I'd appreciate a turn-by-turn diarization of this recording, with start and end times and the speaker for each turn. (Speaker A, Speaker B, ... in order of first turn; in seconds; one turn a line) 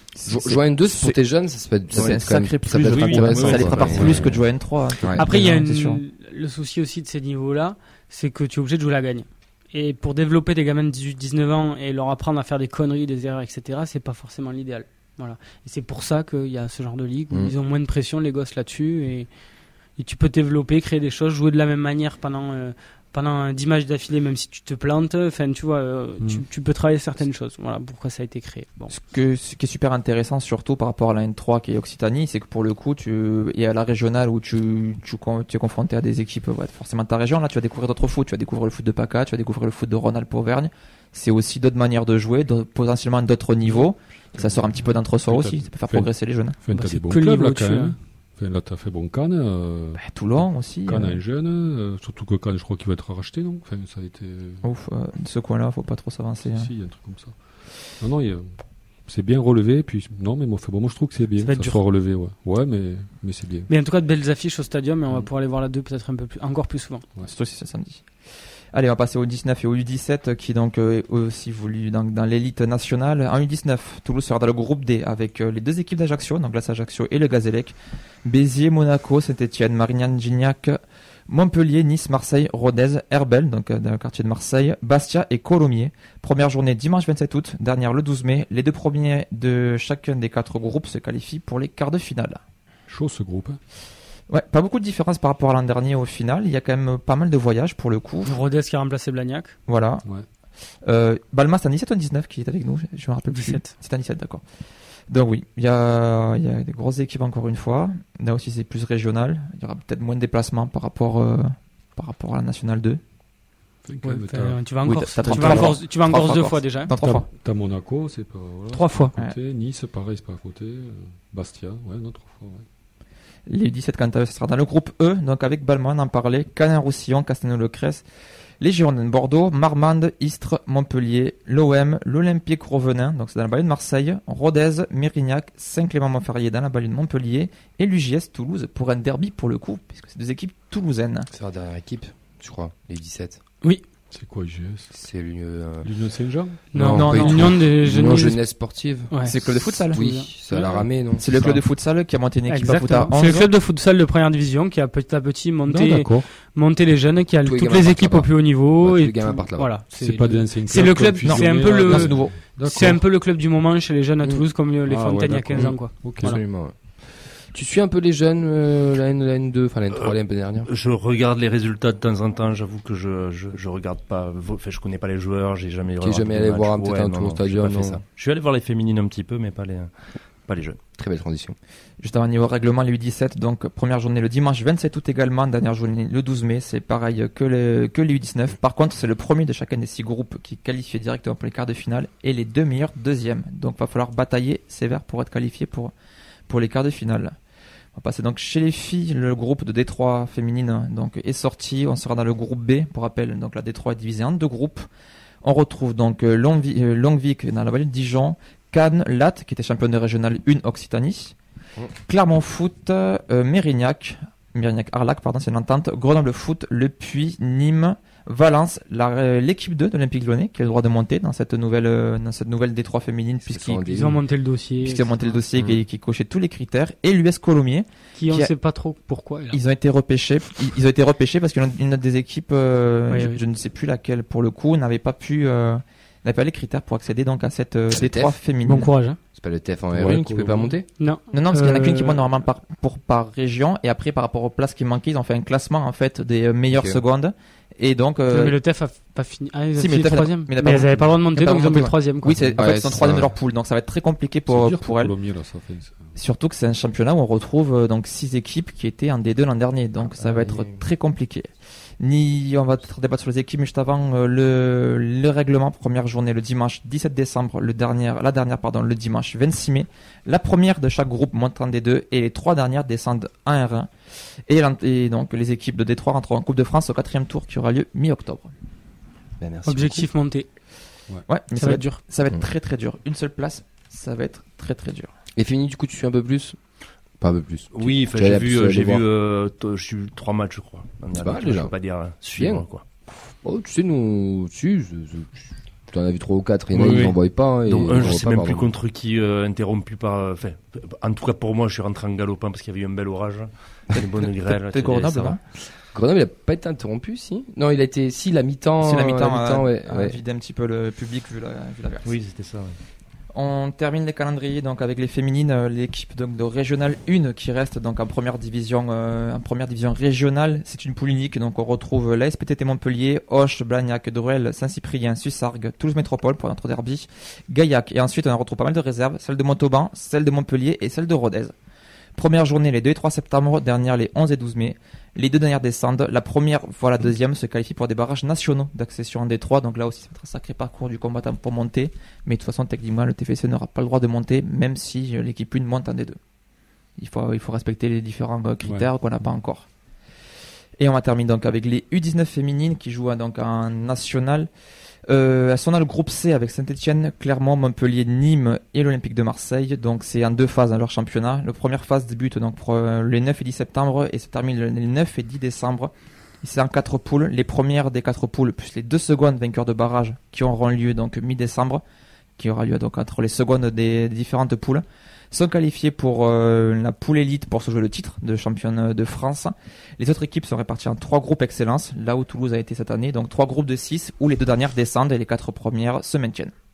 Speaker A: 0.1-1.2
Speaker B: 0.3-4.4
Speaker A: 1.9-6.0
Speaker C: 2.8-4.3
Speaker D: 5.1-19.3
Speaker D: 20.0-28.9
Speaker A: 28.9-46.6
Speaker E: 44.4-54.6
Speaker D: 46.7-48.0
Speaker A: 50.0-51.2
Speaker A: 54.6-56.7
Speaker E: 56.4-57.4
Speaker E: 58.0-58.5
Speaker E: 59.0-63.7
Speaker D: 61.4-61.8
Speaker D: 63.7-67.0
Speaker A: 67.2-68.0
Speaker A: 68.7-80.8
Speaker A: 81.3-92.4
Speaker E: 92.9-93.6
Speaker A: 94.3-98.3
Speaker D: 98.2-99.5
Speaker A: 99.7-100.0
Speaker A: 100.8-104.4
Speaker D: 103.3-103.7
Speaker A: 105.1-113.0
Speaker E: 113.8-114.7
Speaker D: 114.0-116.9
Speaker A: 114.8-117.3
Speaker E: 115.3-115.8
Speaker E: 116.9-122.6
Speaker D: 118.7-119.1
Speaker A: 123.5-128.0
Speaker A: 128.6-141.3
Speaker B: 141.3-143.4
Speaker E: 144.1-144.9
Speaker B: 144.9-145.9
Speaker E: 145.8-147.2
Speaker D: 146.7-148.4
Speaker B: 146.7-149.1
Speaker A: 146.9-147.5
Speaker D: 149.1-150.3
Speaker A: 149.2-153.5
Speaker B: 149.7-151.4
Speaker D: 152.5-166.4
Speaker E: 155.7-156.2
Speaker B: 157.4-159.8
Speaker E: 159.9-163.0
Speaker A: 161.2-162.3
Speaker E: 164.8-166.3
Speaker B: 165.6-170.7
Speaker C: 169.9-180.8
Speaker B: 176.0-178.0
Speaker B: 181.0-181.6
Speaker A: 182.0-195.9
Speaker A: 196.5-197.3
Speaker A: 197.9-204.8
Speaker A: 205.4-211.3
Speaker A: 212.1-223.8
Speaker B: 223.4-224.2
Speaker D: 223.9-225.4
Speaker A: 224.8-228.5
Speaker D: 228.1-229.6
Speaker A: 229.5-238.9
Speaker D: 233.1-233.4
Speaker B: 237.9-238.4
Speaker D: 238.6-239.2
Speaker B: 239.3-240.8
Speaker E: 239.9-240.8
Speaker D: 241.0-242.3
Speaker A: 241.3-248.6
Speaker B: 246.7-247.0
Speaker D: 248.3-252.7
Speaker A: 249.7-255.1
Speaker B: 252.5-253.4
Speaker E: 254.5-256.1
Speaker A: 256.1-261.5
Speaker B: 260.0-260.8
Speaker A: 262.0-273.9
Speaker A: 274.5-278.5
Speaker B: 279.4-280.1
Speaker D: 279.6-280.5
Speaker A: 281.3-285.1
Speaker D: 281.6-282.0
Speaker B: 285.4-286.6
Speaker B: 287.2-289.0
Speaker C: 287.7-292.8
Speaker B: 291.1-291.7
Speaker B: 292.3-292.6
Speaker B: 293.4-298.7
Speaker C: 296.7-305.4
Speaker A: 303.9-305.4
Speaker B: 305.9-310.2
Speaker A: 308.8-312.1
Speaker C: 312.0-312.7
Speaker A: 313.3-331.5
Speaker A: 332.1-346.2
Speaker A: 347.0-349.6
Speaker E: 348.6-348.9
Speaker A: 350.8-354.5
Speaker A: 355.1-371.8
Speaker A: 372.4-386.5